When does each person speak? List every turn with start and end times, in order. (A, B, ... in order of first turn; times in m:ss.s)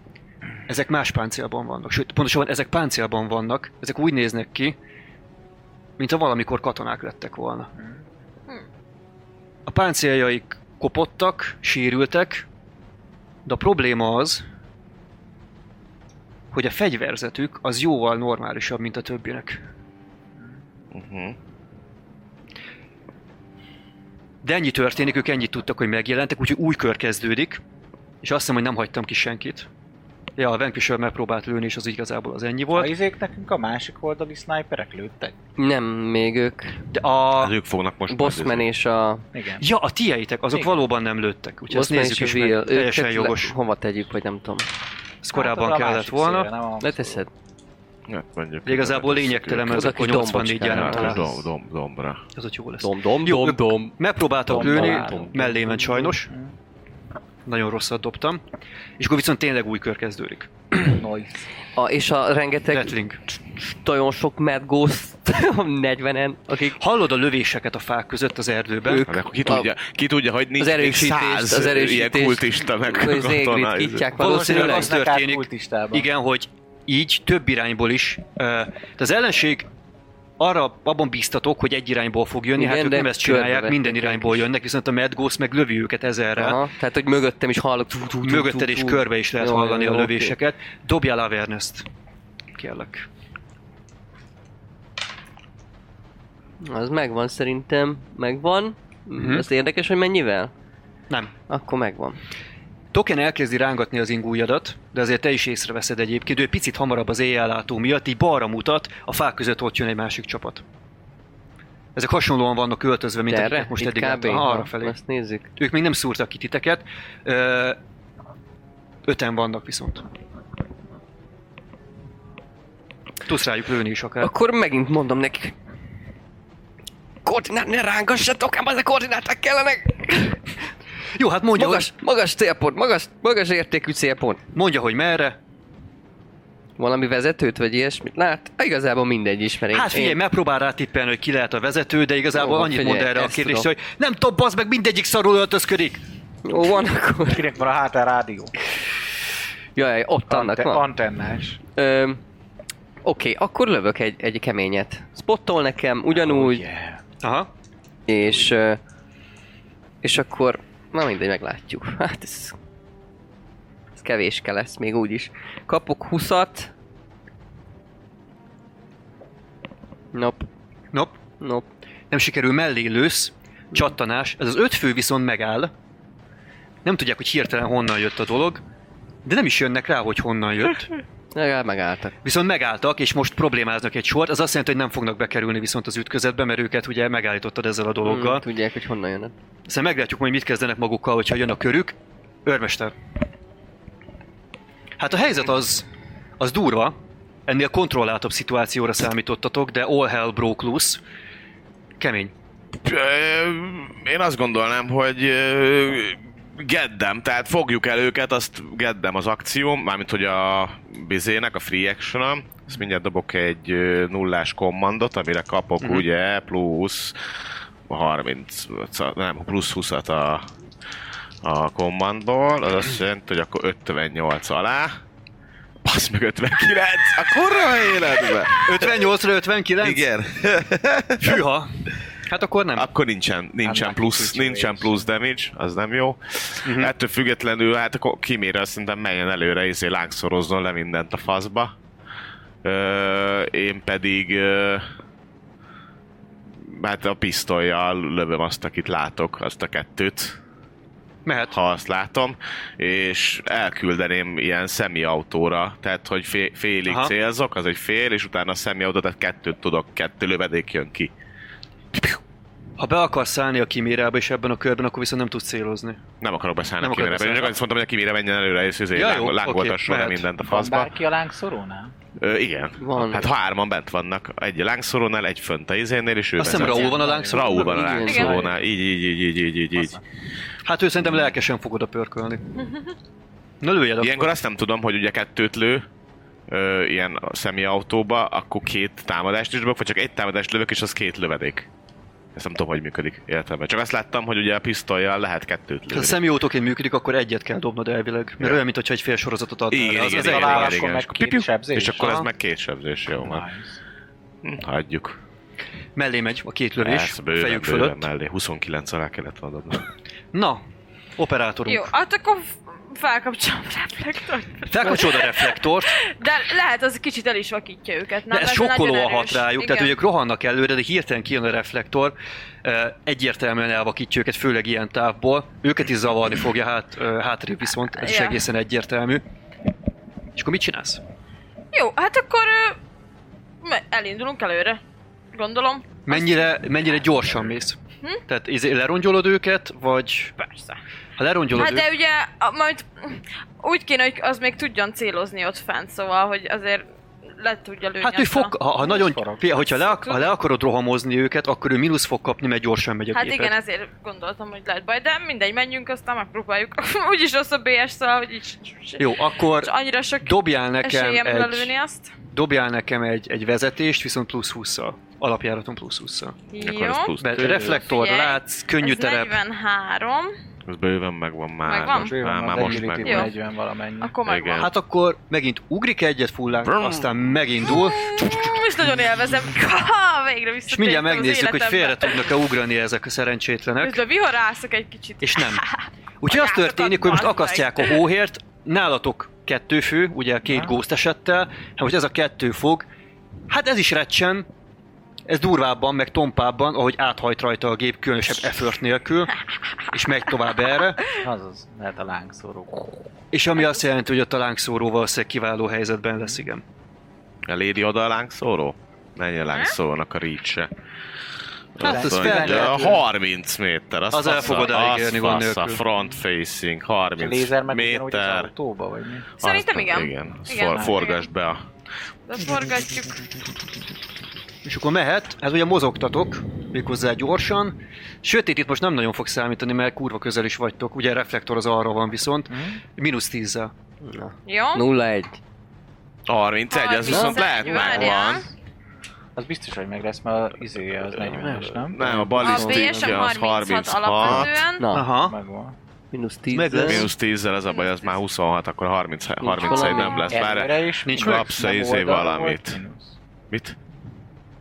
0:00.7-0:04.8 A
0:06.0-0:07.7 A
0:09.7-0:12.5 A
0:13.4-0:14.4 A
0:16.5-0:19.6 A
0:20.9-0:21.4 B
0:24.4-0:27.6 A
0:28.2-0:29.7 A
0:30.4-0:32.9 A
0:32.7-0:35.4 C
0:35.6-0:36.8 D
0:36.9-0:37.6 A
0:37.4-0:38.7 B
0:38.1-0:39.3 D
0:39.3-0:39.6 C
0:39.6-0:43.6 A
0:41.7-0:44.7 D
0:45.2-0:46.5 A
0:45.3-0:47.2 C
0:46.8-0:47.3 D
0:48.1-0:50.0 B
0:48.7-0:51.5 A
0:49.7-0:51.3 D
0:50.6-0:52.2 B
0:52.4-0:56.3 A
0:52.8-0:54.0 D
0:54.5-0:56.1 D
0:54.5-0:55.2 C
0:56.2-0:56.5 C
0:57.5-0:58.4 A
0:59.0-1:00.8 A
1:00.8-1:01.4 C
1:01.8-1:03.0 D
1:02.7-1:03.2 A
1:03.6-1:06.8 D
1:06.8-1:09.1 A
1:08.9-1:09.7 D
1:09.0-1:14.1 B
1:10.6-1:14.9 D
1:14.1-1:19.7 A
1:14.2-1:16.1 C
1:20.4-1:26.6 A
1:22.6-1:24.5 D
1:26.4-1:30.4 D
1:28.2-1:31.9 A
1:32.5-1:33.1 A
1:36.6-1:40.5 D
1:39.2-1:39.5 A
1:41.5-1:42.2 D
1:42.9-1:50.6 A
1:52.0-1:55.0 A
1:53.3-1:55.5 D
1:55.6-1:57.8 A
1:59.1-2:00.1 A
2:03.3-2:04.3 A
2:04.2-2:05.6 D
2:07.2-2:10.4 D
2:11.2-2:11.9 A
2:11.6-2:14.4 D
2:14.6-2:15.4 A
2:16.8-2:20.2 D
2:19.7-2:26.0 A
2:22.3-2:23.7 D
2:26.4-2:27.5 D
2:27.3-2:28.5 C
2:29.8-2:30.9 D
2:30.3-2:31.6 C
2:31.8-2:32.2 D
2:33.0-2:36.6 D
2:36.1-2:37.0 C
2:37.2-2:37.5 A
2:38.1-2:38.8 D
2:40.0-2:42.6 D
2:44.0-2:46.7 D
2:50.1-2:50.5 D
2:51.4-2:51.7 D
2:52.1-2:55.7 A
2:56.8-2:58.6 A
2:59.2-3:00.9 A
3:01.3-3:02.2 D
3:02.2-3:08.4 A
3:08.0-3:09.3 D
3:09.7-3:12.9 A
3:15.0-3:15.9 A
3:16.4-3:17.0 A
3:17.5-3:21.0 A
3:22.0-3:22.3 A
3:22.8-3:37.2 B
3:37.9-3:40.4 B
3:41.4-3:45.0 B
3:45.8-3:49.0 B
3:48.6-3:50.1 A
3:49.8-3:51.4 B
3:51.2-3:51.7 A
3:52.3-3:52.9 A
3:52.8-4:01.7 B
3:53.6-3:55.1 C
3:56.6-3:56.9 A
4:02.6-4:04.9 B
4:06.6-4:10.4 B
4:11.2-4:11.6 A
4:11.5-4:21.1 B
4:16.9-4:17.1 A
4:21.9-4:22.2 B
4:22.8-4:26.0 A
4:26.2-4:30.9 B
4:26.8-4:27.6 A
4:28.9-4:30.3 A
4:30.4-4:31.9 C
4:32.2-4:40.0 B
4:32.8-4:33.3 D
4:36.4-4:38.0 A
4:36.6-4:37.2 C
4:36.6-4:38.5 E
4:37.5-4:38.5 D
4:40.6-4:42.4 A
4:43.6-4:44.2 A
4:44.0-4:45.8 B
4:46.5-4:51.7 B
4:52.4-4:56.2 B
4:55.9-5:00.9 A
4:59.7-5:03.5 B
5:00.1-5:02.1 C
5:02.0-5:02.3 A
5:03.2-5:03.8 C
5:04.4-5:05.2 B
5:06.0-5:08.0 A
5:06.8-5:09.9 B
5:10.3-5:10.6 A
5:11.2-5:11.9 A
5:11.7-5:20.0 E
5:14.7-5:16.0 A
5:18.3-5:29.2 A
5:28.0-5:28.5 E
5:30.4-5:31.0 A
5:31.7-5:32.8 E
5:33.6-5:34.8 E
5:35.3-5:36.7 E
5:36.0-5:40.3 A
5:40.4-5:40.8 E
5:41.2-5:41.9 A
5:41.5-5:48.6 E
5:48.0-5:53.5 A
5:48.8-5:49.4 C
5:49.6-5:50.3 E
5:53.1-6:02.1 E
5:59.0-5:59.7 A
6:00.2-6:01.7 A
6:02.3-6:06.4 A
6:06.5-6:10.3 E
6:06.6-6:07.8 B
6:07.2-6:09.4 A
6:10.7-6:13.3 B
6:11.6-6:13.3 E
6:12.0-6:14.2 C
6:14.0-6:14.7 E
6:14.2-6:14.7 B
6:14.6-6:18.4 A
6:16.6-6:17.3 B
6:17.8-6:22.3 E
6:20.7-6:24.0 A
6:23.8-6:28.0 E
6:25.2-6:25.6 A
6:26.2-6:32.9 A
6:33.5-6:34.5 A
6:35.3-6:39.3 A
6:39.9-6:41.0 A
6:41.2-6:43.0 C
6:43.3-6:46.6 A
6:43.6-6:43.8 E
6:47.5-6:50.7 B
6:49.5-6:49.8 E
6:51.8-6:58.5 B
6:51.8-6:53.0 A
6:51.8-6:53.0 C
6:54.1-6:55.8 A
6:57.2-6:59.3 C
6:59.4-7:01.3 E
6:59.4-7:01.6 B
7:02.3-7:03.2 E
7:04.6-7:13.7 A
7:12.5-7:12.8 C
7:14.0-7:15.4 D
7:14.5-7:14.8 E
7:16.3-7:18.5 B
7:16.7-7:18.5 E
7:17.1-7:18.0 D
7:19.4-7:22.1 C
7:21.3-7:23.3 D
7:21.8-7:24.7 B
7:22.4-7:24.9 E
7:24.3-7:25.1 D
7:24.9-7:25.4 A
7:25.2-7:25.8 C
7:26.1-7:27.1 D
7:26.5-7:27.1 A
7:26.8-7:32.8 B
7:27.7-7:28.1 E
7:29.4-7:30.3 D
7:29.6-7:30.4 E
7:30.3-7:33.2 C
7:31.0-7:31.6 A
7:33.5-7:33.8 B